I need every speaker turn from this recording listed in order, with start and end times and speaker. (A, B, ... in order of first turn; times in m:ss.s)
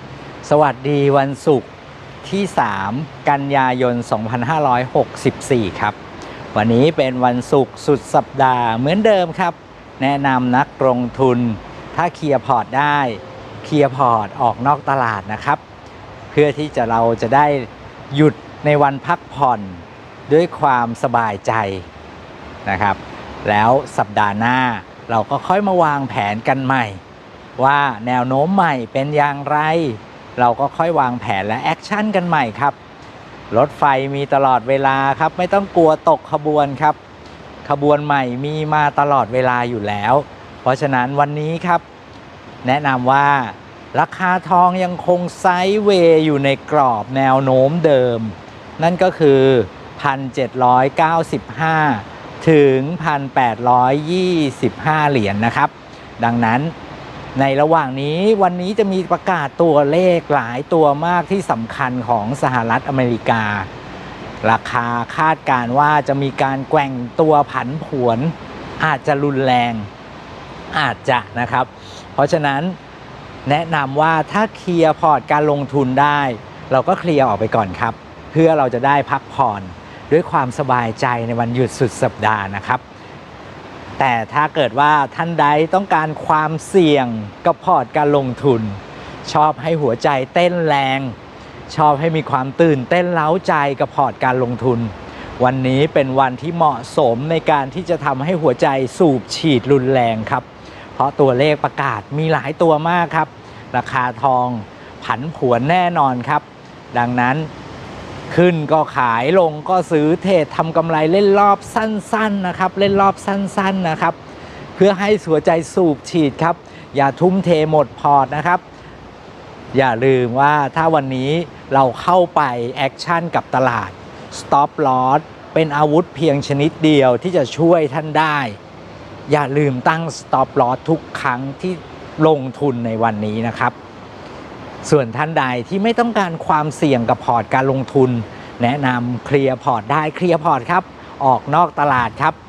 0:00.4-0:01.7 A
0:02.2-0:06.0 A
0:06.5-0:15.6 A
0:16.3-0:21.8 A
0:22.6-0:27.0 A
0:27.6-0:32.8 A
0:33.5-0:37.0 A
0:37.6-0:41.8 A
0:42.6-0:56.7 A
0:57.4-1:03.7 A
1:04.4-1:09.9 A
1:10.7-1:12.8 A
1:13.4-1:22.8 A
1:24.0-1:31.1 A
1:31.7-1:47.5 A
1:48.3-1:54.2 A
1:54.8-1:58.6 A
1:59.7-2:08.6 A
2:09.3-2:13.7 A
2:14.8-2:22.3 A